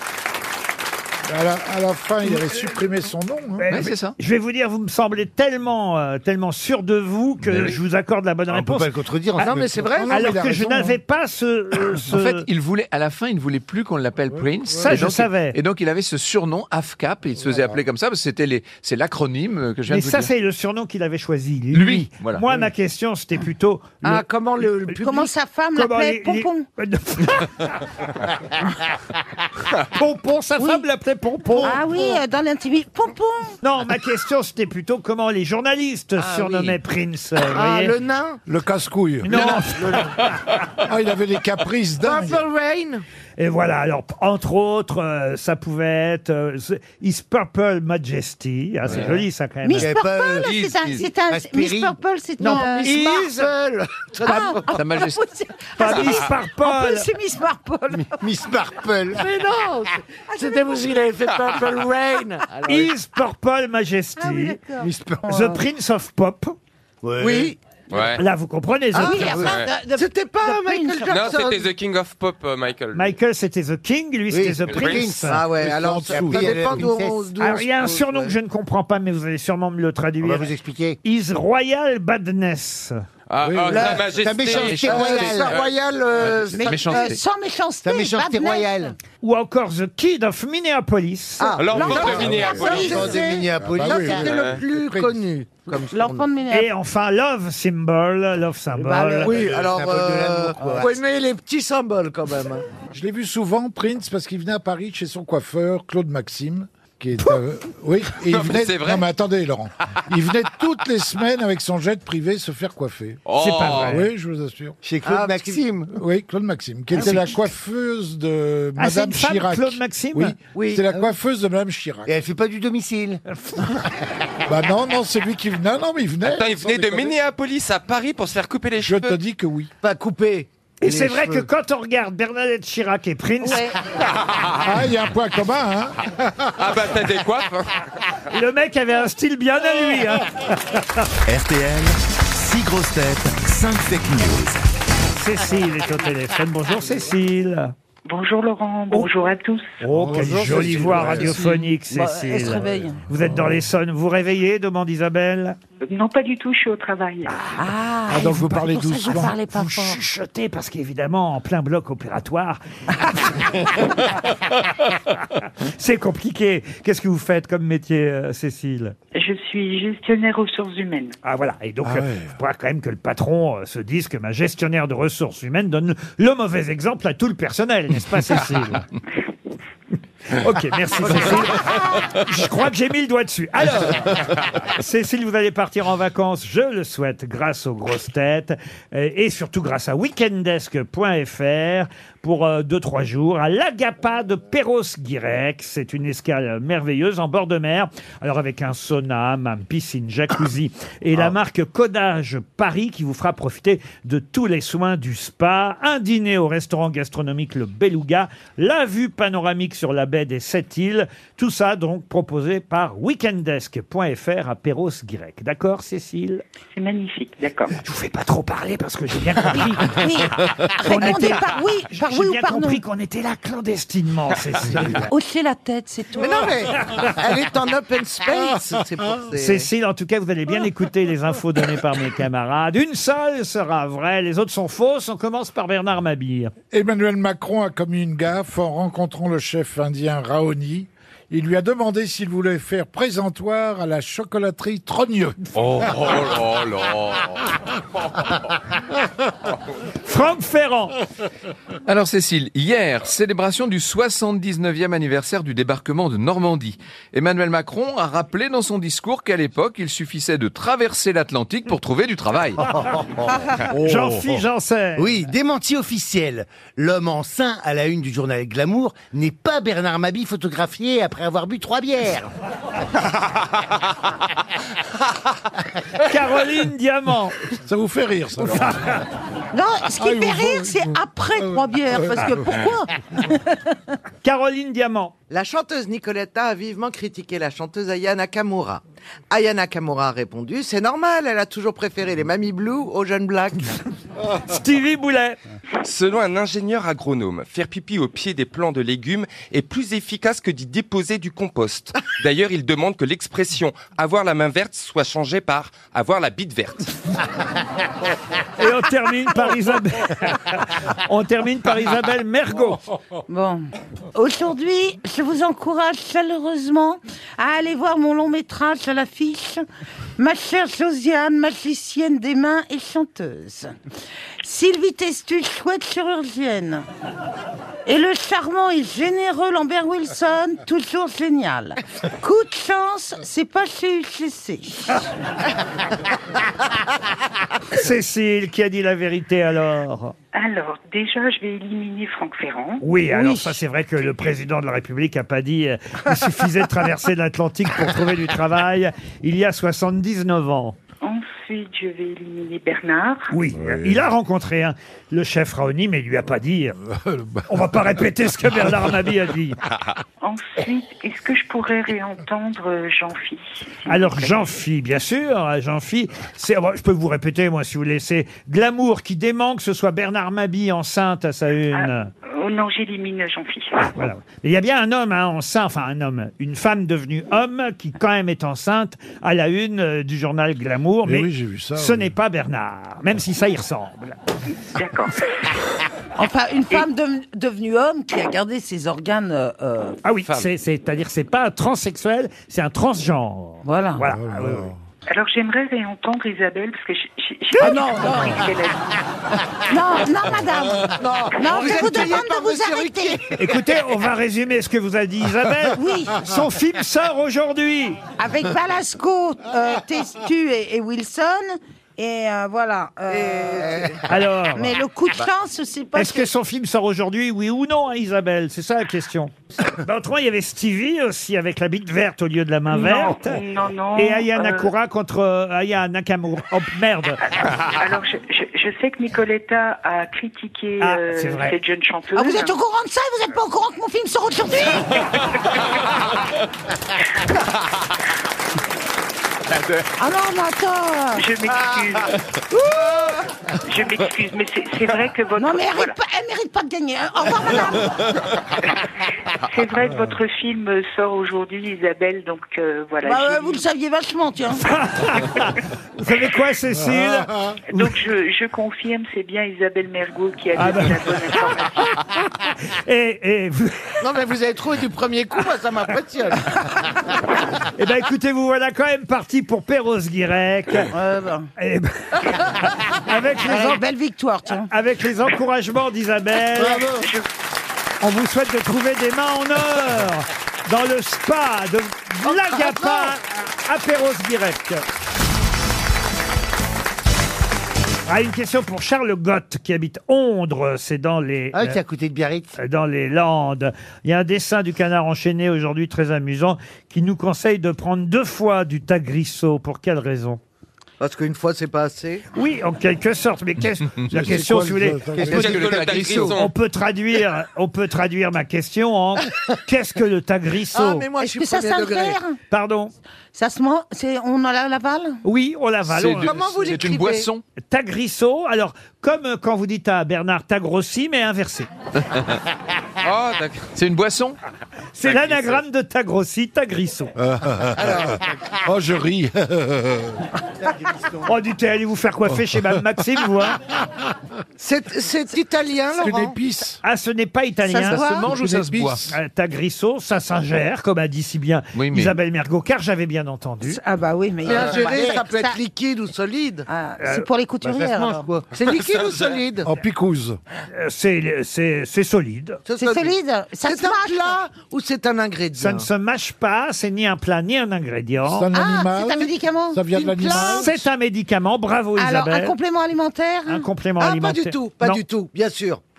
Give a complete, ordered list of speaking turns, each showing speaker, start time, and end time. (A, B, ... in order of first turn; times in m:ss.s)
0:01.3-0:03.8 A
0:03.6-0:08.9 B
0:03.7-0:04.2 C
0:07.5-0:07.7 C
0:08.5-0:10.1 D
0:09.4-0:10.1 E
0:09.5-0:11.0 A
0:10.1-0:12.5 B
0:12.1-0:20.3 C
0:14.3-0:15.1 A
0:14.8-0:15.6 B
0:17.4-0:17.8 A
0:19.9-0:24.3 B
0:21.7-0:22.4 C
0:24.0-0:25.3 E
0:24.9-0:27.8 B
0:25.0-0:26.7 F
0:29.8-0:31.9 B
0:30.6-0:30.8 F
0:31.6-0:33.6 F
0:33.6-0:38.0 B
0:36.2-0:36.7 E
0:37.4-0:38.4 E
0:38.5-0:39.6 A
0:39.2-0:40.2 B
0:39.3-0:40.3 E
0:40.8-0:42.4 A
0:42.0-0:43.0 E
0:43.4-0:49.9 B
0:48.9-0:49.2 A
0:49.6-0:52.9 F
0:49.8-0:52.0 D
0:50.4-0:51.1 C
0:52.4-0:53.5 B
0:52.4-0:54.6 E
0:54.2-0:58.2 F
0:54.7-0:55.2 C
0:55.8-0:57.1 B
0:57.9-0:59.3 D
0:59.2-1:02.9 E
1:00.4-1:00.9 F
1:01.4-1:01.7 G
1:02.7-1:04.6 B
1:04.2-1:05.6 F
1:04.8-1:05.3 D
1:05.3-1:06.6 B
1:07.0-1:07.5 D
1:07.2-1:07.6 E
1:07.9-1:08.2 G
1:08.2-1:09.4 B
1:08.9-1:11.7 E
1:09.0-1:11.4 F
1:09.4-1:09.7 G
1:11.1-1:13.1 G
1:12.9-1:15.4 B
1:14.3-1:17.2 D
1:14.7-1:15.1 G
1:15.3-1:18.3 E
1:15.6-1:16.9 A
1:17.4-1:20.5 B
1:20.2-1:21.0 D
1:21.0-1:23.0 B
1:23.3-1:25.7 G
1:23.4-1:23.9 A
1:23.7-1:25.6 D
1:24.5-1:25.3 C
1:24.7-1:27.2 E
1:26.2-1:27.2 C
1:26.5-1:28.9 F
1:27.8-1:29.0 D
1:29.2-1:31.5 B
1:31.4-1:36.2 E
1:31.6-1:33.1 G
1:31.7-1:34.8 D
1:31.8-1:34.4 A
1:34.2-1:34.6 G
1:35.9-1:36.7 F
1:36.5-1:39.3 B
1:38.9-1:40.9 D
1:39.2-1:42.6 E
1:39.3-1:39.6 A
1:42.9-1:53.2 A
1:48.2-1:49.1 G
1:53.3-1:54.0 G
1:53.4-1:54.1 B
1:53.7-1:54.8 A
1:54.8-1:56.0 D
1:55.0-1:55.6 E
1:55.9-2:02.1 A
1:57.0-1:57.3 D
1:58.8-2:00.4 B
2:00.5-2:00.9 E
2:02.1-2:03.2 D
2:03.4-2:03.7 B
2:04.5-2:07.2 A
2:06.2-2:09.2 G
2:08.8-2:09.7 A
2:09.8-2:11.4 E
2:10.8-2:13.6 B
2:13.4-2:13.8 F
2:14.3-2:14.5 G
2:14.6-2:16.1 A
2:16.6-2:17.8 G
2:18.3-2:21.1 B
2:21.3-2:24.7 H
2:25.1-2:27.7 B
2:28.1-2:29.8 I
2:29.8-2:35.6 B
2:29.9-2:31.6 A
2:31.9-2:33.0 F
2:35.9-2:37.3 I
2:37.3-2:37.6 B
2:37.6-2:40.0 F
2:38.1-2:39.4 A
2:39.5-2:44.1 B
2:45.4-2:49.0 B
2:49.2-2:51.2 I
2:51.2-2:58.9 B
2:51.8-2:52.4 A
3:00.3-3:36.4 B
3:36.7-3:37.7 I
3:37.8-3:40.1 B
3:39.6-3:42.8 F
3:40.8-3:45.1 B
3:45.1-3:46.6 F
3:46.2-3:49.7 E
3:49.4-3:56.5 B
3:56.7-4:05.4 A
4:05.6-4:07.4 G
4:10.0-4:11.0 B
4:11.8-4:22.7 C
4:22.6-4:23.6 D
4:23.7-4:25.3 B
4:25.0-4:32.3 D
4:36.0-4:37.4 B
4:37.5-4:38.8 A
4:38.5-4:39.0 B
4:39.5-4:43.8 F
4:40.0-4:42.4 A
4:44.2-4:45.1 B
4:45.3-4:53.7 E
4:54.3-4:55.4 B
4:55.8-5:06.9 G
5:08.6-5:12.8 B
5:13.3-5:19.6 F
5:20.2-5:23.8 F
5:24.4-5:26.9 F
5:27.9-5:35.0 F
5:37.7-5:40.1 B
5:40.3-5:42.8 I
5:42.8-5:50.8 B
5:43.1-5:43.6 F
5:51.0-5:53.3 I
5:53.3-5:56.8 B
5:53.5-5:54.1 A
5:56.9-5:57.8 A
5:57.5-5:59.6 B
6:00.2-6:04.5 I
6:03.9-6:12.1 B
6:11.7-6:13.9 I
6:13.9-6:24.2 B
6:21.0-6:22.1 A
6:24.7-6:25.3 I
6:26.2-6:30.0 F
6:30.0-6:34.7 B
6:33.6-6:34.1 F
6:34.1-6:34.8 A
6:35.1-6:38.8 I
6:37.6-6:38.5 F
6:39.7-6:43.2 F
6:41.0-6:43.5 E
6:41.6-6:42.0 B
6:43.4-6:48.0 B
6:45.7-6:46.2 F
6:48.2-6:53.8 F
6:53.1-6:54.0 E
6:54.1-6:54.8 B
6:54.6-6:56.3 F
6:56.0-7:03.4 B
7:02.7-7:04.7 I
7:04.0-7:07.2 B
7:07.4-7:12.6 I
7:10.8-7:11.6 B
7:12.2-7:15.2 F
7:20.0-7:21.3 F
7:21.2-7:22.2 I
7:22.5-7:23.3 F
7:23.6-7:26.0 I
7:25.4-7:28.2 F
7:29.4-7:33.6 I
7:33.0-7:34.6 F
7:34.6-7:37.9 B
7:36.8-7:37.6 A
7:37.7-7:41.9 I
7:40.6-7:41.0 B
7:42.5-7:44.0 B
7:44.0-7:46.6 E
7:47.8-7:50.9 B
7:50.9-7:51.5 F
7:51.6-7:53.8 B
7:53.4-7:54.7 F
7:54.5-7:56.9 B
7:56.6-7:56.9 D
7:57.0-7:57.3 I
7:58.0-8:04.8 B
8:08.1-8:11.8 B
8:11.5-8:12.6 D
8:12.6-8:20.4 B
8:21.0-8:22.2 E
8:22.4-8:31.1 B
8:24.1-8:25.8 A
8:25.2-8:26.5 G
8:25.4-8:26.1 D
8:30.7-8:32.2 E
8:31.2-8:32.4 F
8:32.5-8:32.9 B
8:33.3-8:35.2 F
8:35.2-8:36.4 B
8:35.9-8:37.4 C
8:36.2-8:37.3 E
8:37.6-8:41.7 B
8:42.0-8:42.4 C
8:43.0-8:43.7 G
8:43.7-8:44.4 C
8:45.0-8:47.1 B
8:45.1-8:45.4 G
8:47.2-8:50.2 A
8:47.8-8:48.2 E
8:51.2-8:53.6 B
8:54.6-8:56.4 E
8:55.9-8:56.8 A
8:56.8-8:58.0 B
8:57.6-8:58.3 F
8:57.9-8:59.1 C
8:58.0-8:59.1 A
8:59.1-9:03.8 B
9:01.7-9:02.2 C
9:03.6-9:05.6 F
9:04.4-9:06.7 E
9:04.5-9:05.2 D
9:06.7-9:08.3 F
9:07.0-9:07.3 B
9:07.6-9:08.5 D
9:08.5-9:09.7 E
9:09.6-9:10.4 A
9:10.7-9:12.6 B
9:12.7-9:15.9 E
9:12.8-9:14.4 F
9:15.6-9:18.5 B
9:18.3-9:20.9 A
9:18.5-9:20.7 F
9:20.6-9:22.6 B
9:22.0-9:23.7 F
9:23.5-9:25.0 B
9:24.0-9:25.8 E